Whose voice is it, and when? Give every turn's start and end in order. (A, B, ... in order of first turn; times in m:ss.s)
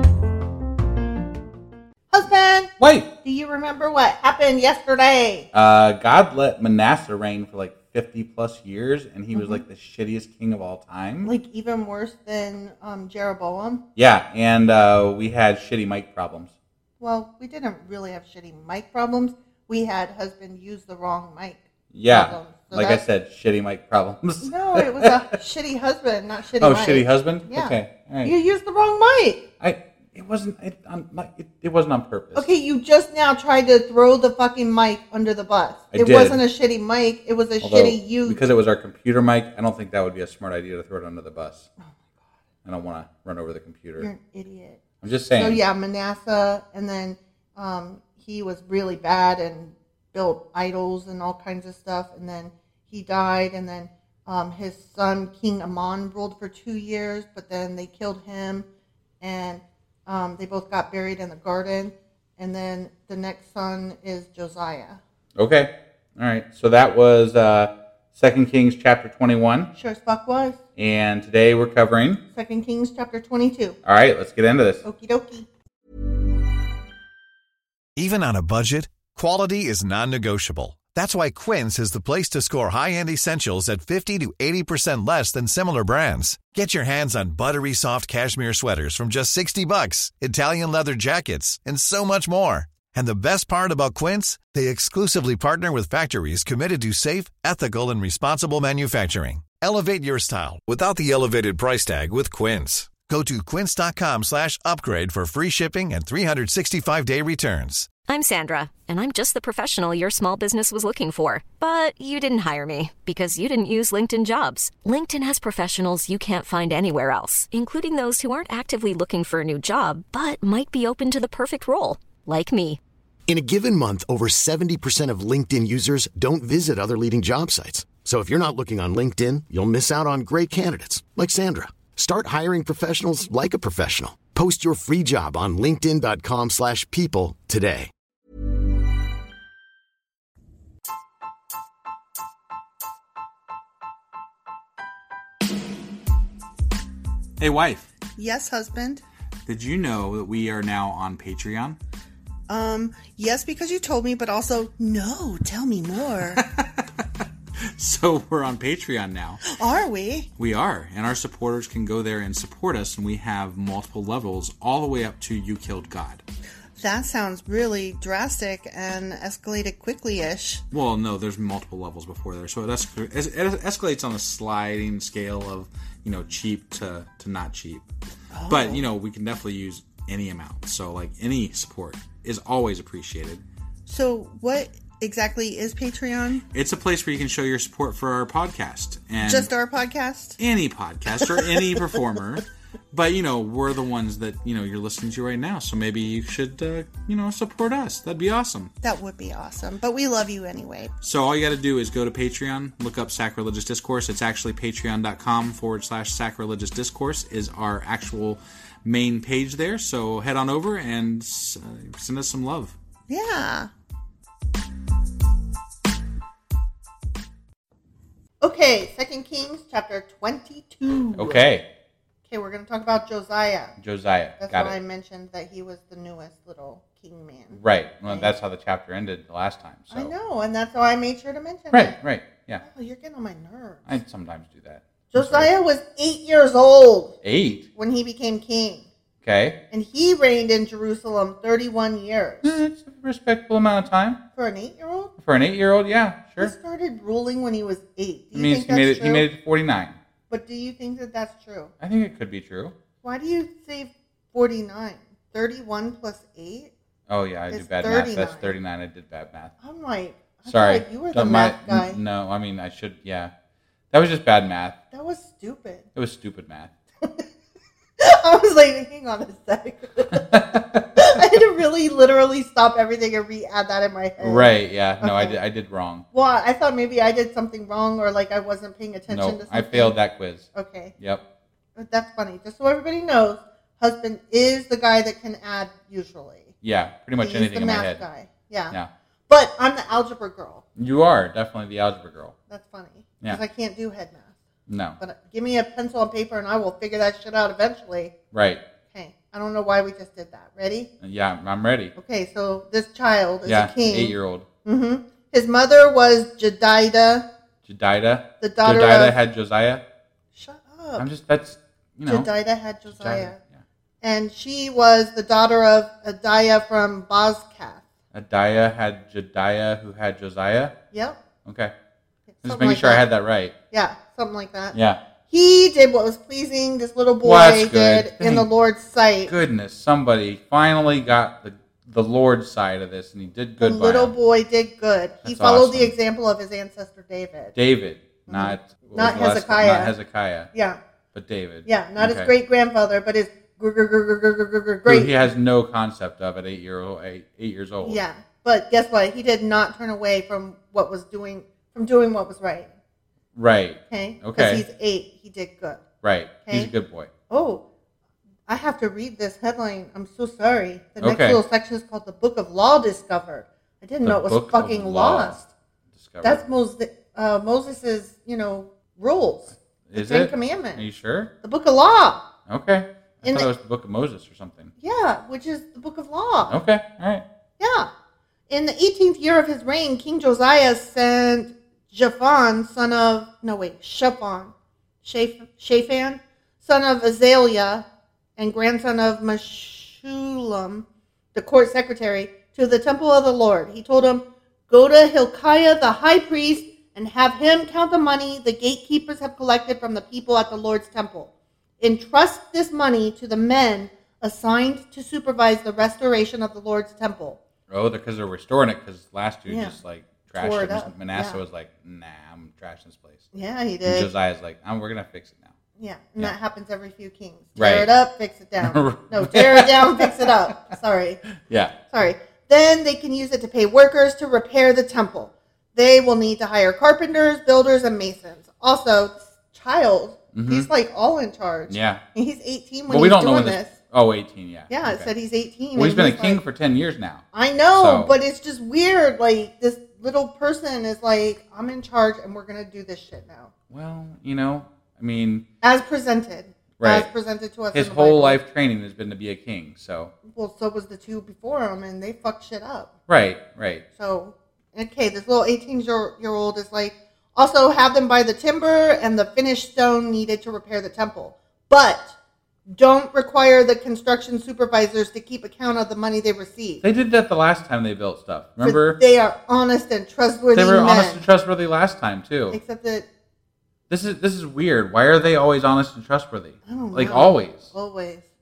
0:02.1-0:02.7 A
0:02.8-0:03.1 B
0:03.2-0:05.5 A
0:05.5-0:11.3 B
0:09.3-0:09.6 A
0:11.2-0:13.8 A
0:14.0-0:16.5 B
0:17.0-0:23.0 A
0:21.9-0:25.1 B
0:24.4-0:29.4 A
0:26.6-0:28.3 B
0:29.6-0:32.5 B
0:32.4-0:38.4 A
0:35.9-0:36.4 B
0:37.6-0:41.7 B
0:42.6-0:44.1 B
0:44.0-0:44.8 A
0:45.0-0:45.6 B
0:45.4-0:58.7 A
0:59.2-1:05.0 A
1:05.4-1:09.7 B
1:09.8-1:10.6 A
1:10.8-1:12.2 B
1:12.3-1:13.8 A
1:13.8-1:14.8 B
1:14.8-1:15.5 A
1:18.0-1:47.9 C
1:48.1-2:02.8 D
2:03.3-2:17.9 E
2:27.4-2:27.9 B
2:28.2-2:29.0 A
2:29.5-2:31.8 B
2:32.5-2:36.4 A
2:36.4-2:37.0 B
2:37.8-2:39.4 B
2:39.4-2:40.3 A
2:40.4-2:46.2 B
2:46.8-2:50.6 A
2:50.7-2:57.8 B
2:58.3-2:58.9 A
2:58.5-3:03.4 B
3:03.9-3:06.4 A
3:06.5-3:09.5 B
3:09.2-3:10.4 A
3:10.4-3:18.7 B
3:11.4-3:11.9 A
3:18.8-3:20.9 A
3:21.0-3:32.7 B
3:33.1-3:33.7 A
3:38.4-3:41.4 A
3:41.2-3:41.6 B
3:42.3-3:43.7 A
3:43.8-3:44.8 B
3:44.4-3:48.3 A
3:47.5-3:50.1 B
3:49.9-3:52.0 A
3:51.7-3:52.6 B
3:52.6-3:53.9 A
3:53.9-3:55.5 B
3:55.1-3:57.1 A
3:57.2-3:57.6 B
3:57.8-3:58.9 A
3:59.2-3:59.6 B
3:59.7-4:02.6 A
4:02.4-4:04.2 B
4:04.4-4:05.1 A
4:05.2-4:06.5 B
4:06.4-4:09.2 A
4:08.3-4:10.0 B
4:10.3-4:11.7 A
4:11.8-4:12.7 B
4:13.0-4:16.7 A
4:17.1-4:19.5 B
4:17.5-4:18.6 A
4:19.6-4:22.0 A
4:20.4-4:23.3 B
4:23.9-4:24.8 B
4:24.9-4:25.8 A
4:26.0-4:26.7 B
4:28.0-4:30.3 A
4:30.2-4:30.8 B
4:31.0-4:35.4 A
4:34.2-4:36.0 B
4:36.1-4:40.0 A
4:39.1-4:41.2 B
4:40.5-4:40.9 A
4:41.8-4:46.5 A
4:46.6-4:48.0 B
4:47.2-4:48.8 A
4:49.3-4:50.6 A
4:50.8-4:52.3 B
4:52.5-4:54.4 A
4:54.7-4:55.0 B
4:55.0-4:58.1 A
4:58.3-4:58.6 B
4:58.9-5:00.9 A
5:01.0-5:01.9 B
5:02.0-5:07.3 A
5:03.5-5:04.5 B
5:07.6-5:09.8 B
5:08.4-5:09.1 A
5:10.4-5:11.1 A
5:11.0-5:12.3 B
5:12.1-5:13.4 A
5:12.9-5:13.6 B
5:14.0-5:17.8 A
5:18.1-5:20.7 B
5:20.9-5:21.2 A
5:21.4-5:21.7 B
5:22.4-5:23.0 A
5:22.4-5:23.5 B
5:23.7-5:24.8 A
5:24.7-5:25.0 B
5:25.3-5:29.3 A
5:27.2-5:28.5 B
5:29.3-5:34.1 B
5:33.6-5:37.5 A
5:35.2-5:35.9 B
5:37.6-5:40.5 B
5:38.3-5:39.9 A
5:40.5-5:40.8 A
5:41.1-5:42.3 B
5:41.7-5:45.2 A
5:44.9-5:48.0 B
5:47.8-5:52.7 A
5:53.4-5:54.6 B
5:53.9-5:55.8 A
5:56.0-5:57.1 B
5:57.3-5:57.6 A
5:58.5-6:05.5 A
6:01.0-6:01.4 B
6:04.0-6:05.4 B
6:06.0-6:06.4 B
6:06.2-6:10.8 A
6:09.9-6:11.3 B
6:11.4-6:12.2 A
6:12.5-6:14.7 B
6:14.8-6:16.5 A
6:16.4-6:17.2 B
6:17.6-6:17.9 A
6:18.5-6:27.8 A
6:28.4-6:47.4 A
6:47.7-6:53.3 B
6:49.5-6:49.8 A
6:50.3-6:51.4 A
6:53.3-6:54.1 A
6:53.8-6:55.5 B
6:55.8-7:01.2 A
6:57.6-6:57.9 B
6:58.6-7:00.3 B
7:01.5-7:01.7 B
7:01.9-7:13.7 A
7:10.3-7:10.7 B
7:11.7-7:12.0 B
7:12.9-7:15.1 B
7:14.7-7:16.4 A
7:15.7-7:17.2 B
7:17.3-7:23.5 A
7:17.8-7:18.1 B
7:23.7-7:25.4 B
7:25.6-7:28.4 A
7:26.8-7:27.1 B
7:27.7-7:30.1 B
7:30.3-7:32.9 A
7:33.1-7:33.8 B
7:34.0-7:42.1 A
7:42.7-7:46.8 A
7:46.8-7:49.0 B
7:48.6-7:51.2 A
7:50.5-7:52.6 B
7:52.5-7:53.1 A
7:53.9-7:57.7 B
7:56.7-7:58.2 A